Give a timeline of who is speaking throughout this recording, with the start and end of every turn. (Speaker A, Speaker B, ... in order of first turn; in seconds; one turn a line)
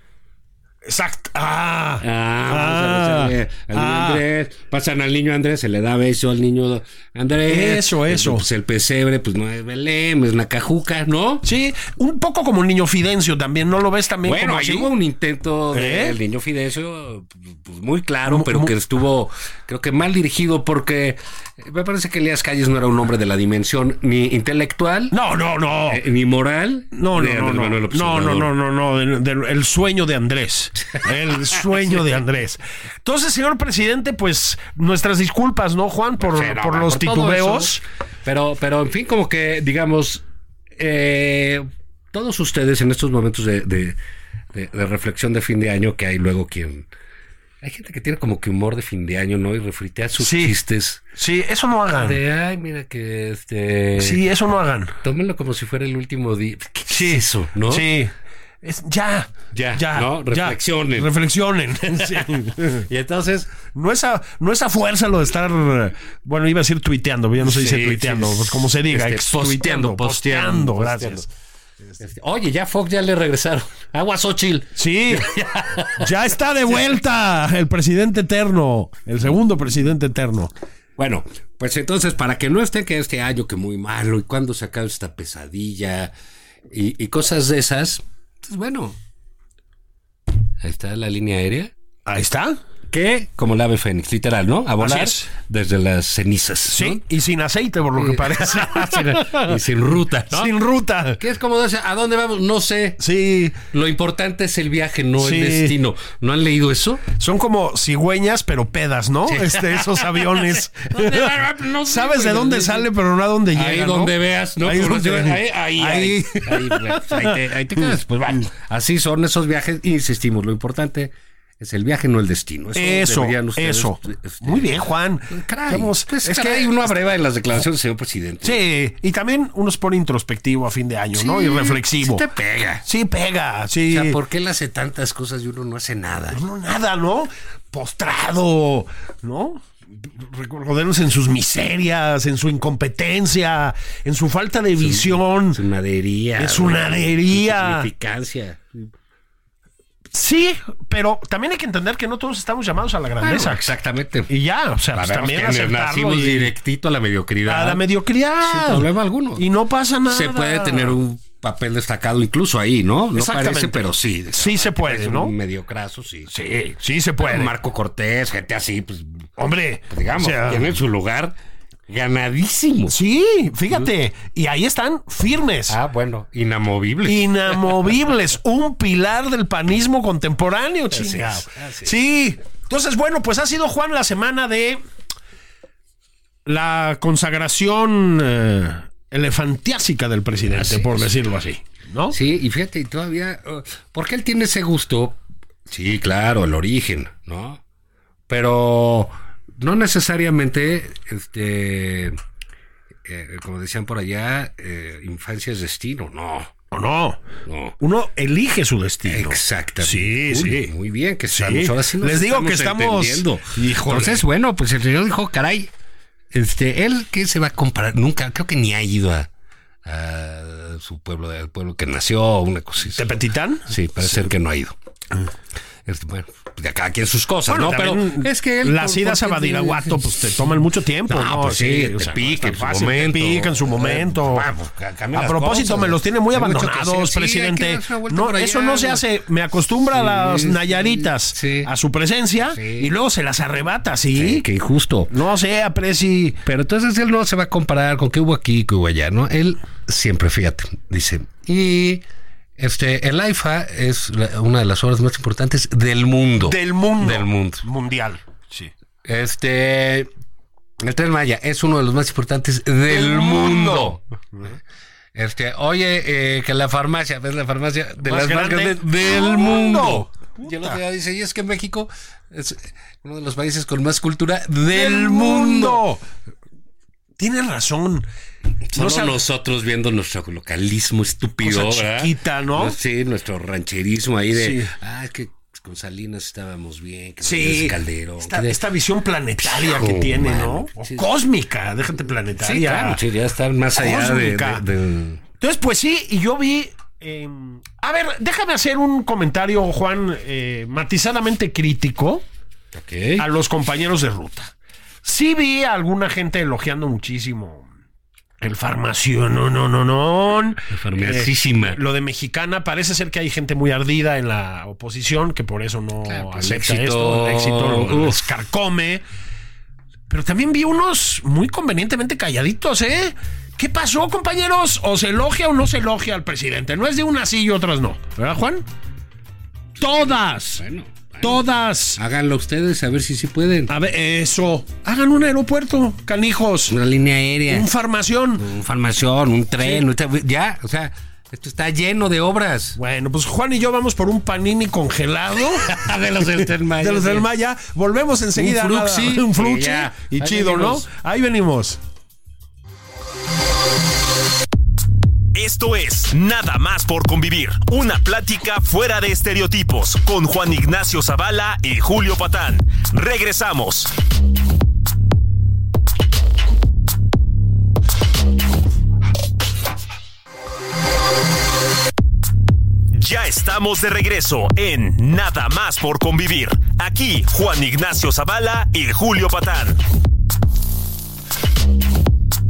Speaker A: 0.8-4.2
Speaker B: 2.0-11.4
Speaker A: 7.5-8.4
Speaker A: 11.4-14.9
Speaker B: 14.2-25.1
Speaker A: 15.7-16.2
Speaker A: 18.3-18.7
Speaker A: 25.1-26.0
Speaker B: 25.9-28.5
Speaker A: 26.9-37.8
Speaker B: 36.2-40.2
Speaker B: 40.7-44.0
Speaker B: 44.5-46.9
Speaker B: 47.6-51.0
Speaker A: 50.2-50.5
Speaker A: 51.1-52.2
Speaker B: 51.9-54.2
Speaker A: 54.0-54.9
Speaker B: 55.0-57.9
Speaker A: 56.9-58.1
Speaker A: 58.6-62.8
Speaker B: 59.5-61.1
Speaker B: 61.9-63.5
Speaker A: 63.7-71.2
Speaker B: 67.4-71.3
Speaker B: 72.0-76.1
Speaker A: 74.8-75.3
Speaker A: 76.0-80.5
Speaker B: 81.0-86.1
Speaker B: 86.7-89.0
Speaker B: 90.6-91.7
Speaker A: 92.0-92.6
Speaker B: 92.9-97.0
Speaker A: 94.8-95.3
Speaker A: 96.7-99.5
Speaker B: 98.0-100.5
Speaker A: 100.3-101.2
Speaker B: 101.2-103.0
Speaker A: 103.0-103.5
Speaker B: 103.5-107.1
Speaker A: 105.2-105.7
Speaker A: 107.2-111.3
Speaker B: 109.2-112.9
Speaker A: 111.9-117.4
Speaker B: 113.5-128.6
Speaker A: 122.7-126.9
Speaker A: 128.4-132.2
Speaker B: 131.1-132.8
Speaker A: 132.8-134.2
Speaker B: 133.9-136.4
Speaker A: 136.3-145.6
Speaker B: 144.8-148.9
Speaker A: 146.4-147.9
Speaker A: 150.1-153.7
Speaker B: 153.2-154.3
Speaker A: 154.3-156.5
Speaker B: 154.9-157.8
Speaker A: 157.4-161.0
Speaker B: 158.4-159.4
Speaker B: 160.1-166.3
Speaker A: 163.1-165.3
Speaker A: 166.3-167.5
Speaker B: 167.2-169.3
Speaker A: 169.4-170.7
Speaker B: 169.9-171.3
Speaker B: 171.9-172.9
Speaker A: 172.9-175.8
Speaker B: 175.7-177.9
Speaker A: 177.0-184.8
Speaker B: 180.9-181.9
Speaker A: 186.4-192.2
Speaker B: 190.5-191.2
Speaker B: 192.1-197.6
Speaker B: 198.3-202.2
Speaker B: 203.0-206.5
Speaker A: 206.7-207.2
Speaker B: 207.4-207.8
Speaker A: 207.8-210.7
Speaker B: 209.0-215.7
Speaker A: 211.3-214.2
Speaker B: 216.3-219.3
Speaker B: 219.8-223.1
Speaker A: 222.9-223.7
Speaker B: 223.7-224.8
Speaker B: 225.8-230.3
Speaker A: 227.5-234.5
Speaker B: 231.1-239.1
Speaker A: 235.1-244.4
Speaker B: 239.9-241.7
Speaker B: 242.4-242.9
Speaker B: 244.1-245.1
Speaker A: 245.1-246.4
Speaker B: 246.4-252.0
Speaker B: 252.6-257.6
Speaker A: 256.4-258.7
Speaker B: 259.0-260.1
Speaker B: 260.8-264.0
Speaker A: 262.9-264.6
Speaker B: 265.1-275.8
Speaker A: 268.0-270.8
Speaker A: 274.7-276.0
Speaker A: 277.2-278.1
Speaker B: 278.7-288.6
Speaker A: 278.7-279.2
Speaker A: 281.4-282.8
Speaker A: 284.3-284.7
Speaker A: 287.2-293.0
Speaker B: 289.4-291.1
Speaker B: 292.4-295.2
Speaker A: 293.7-294.6
Speaker A: 295.4-302.2
Speaker B: 302.7-303.2
Speaker A: 303.2-307.7
Speaker A: 308.4-319.0
Speaker B: 310.7-311.8
Speaker B: 316.0-318.2
Speaker A: 320.1-328.6
Speaker A: 329.8-330.6
Speaker B: 329.9-331.4
Speaker A: 331.2-332.0
Speaker B: 332.0-333.7
Speaker A: 333.7-336.8
Speaker B: 336.7-337.7
Speaker A: 337.5-338.5
Speaker B: 338.4-342.8
Speaker A: 342.8-345.7
Speaker B: 345.3-347.3
Speaker A: 346.8-351.8
Speaker B: 348.3-350.9
Speaker C: 355.3-363.9
Speaker C: 372.9-379.8